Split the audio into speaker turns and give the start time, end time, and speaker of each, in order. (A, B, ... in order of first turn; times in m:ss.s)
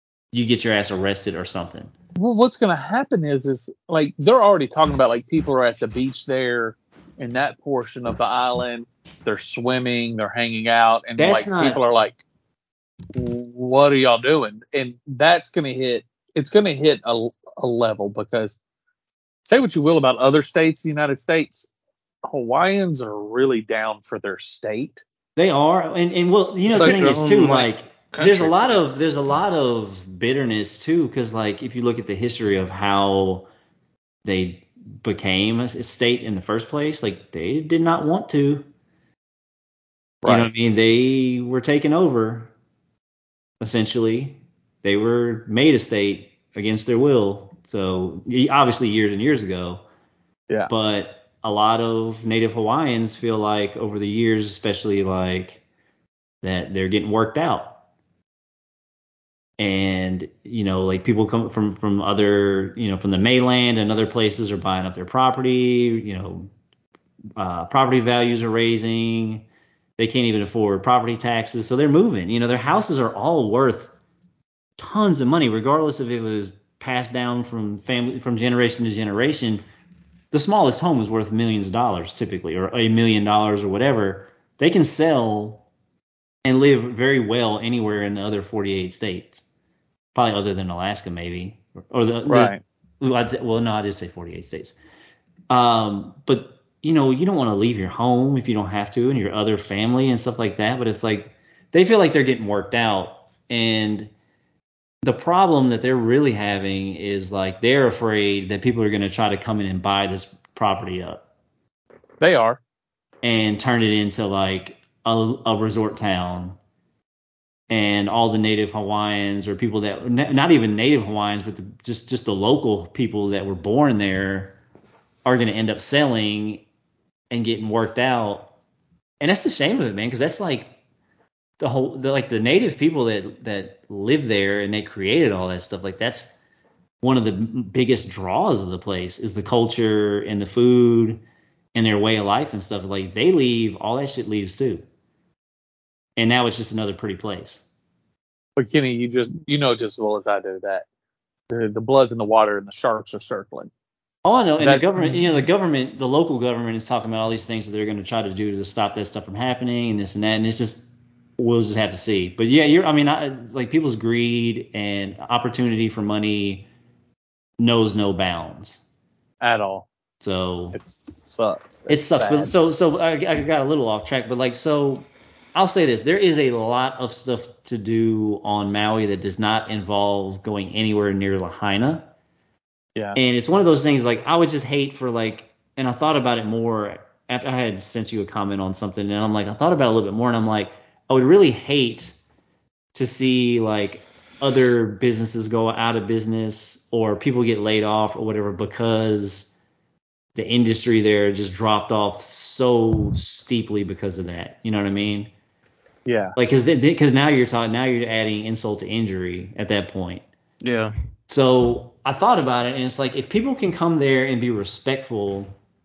0:00.3-0:01.9 A
0:02.2-0:12.2 B
0:11.2-0:11.8 A
0:13.1-0:18.6 B
0:19.4-0:21.7 B
0:22.2-0:25.0 B
0:25.4-0:33.5 A
0:26.7-0:28.8 C
0:26.7-0:27.2 B
0:34.2-0:38.7 A
0:40.2-0:40.5 B
0:40.2-0:42.5 A
0:43.6-0:49.8 A
0:50.7-0:55.6 A
0:56.4-0:57.8 A
0:59.6-1:06.5 A
1:07.4-1:09.4 A
1:10.0-1:13.9 A
1:14.8-1:19.6 A
1:20.3-1:25.6 A
1:26.4-1:29.4 A
1:30.1-1:34.8 A
1:32.3-1:32.6 B
1:35.5-1:44.1 A
1:45.0-1:51.2 A
1:52.2-1:52.6 B
1:53.2-1:56.6 A
1:57.7-2:04.6 A
2:05.2-2:06.6 A
2:07.3-2:08.5 A
2:09.2-2:10.7 A
2:11.6-2:16.4 A
2:17.0-2:21.2 A
2:21.7-2:24.8 A
2:26.2-2:27.6 A
2:28.6-2:30.9 B
2:31.5-2:33.7 B
2:34.2-2:46.7 A
2:34.6-2:35.3 B
2:47.6-2:48.8 A
2:49.4-2:49.9 B
2:50.2-2:50.8 A
2:50.7-2:52.5 B
2:51.9-3:02.1 A
3:03.1-3:12.2 A
3:12.9-3:19.5 A
3:20.3-3:25.3 A
3:26.0-3:26.4 B
3:26.3-3:30.2 A
3:30.6-3:30.9 C
3:31.3-3:35.6 A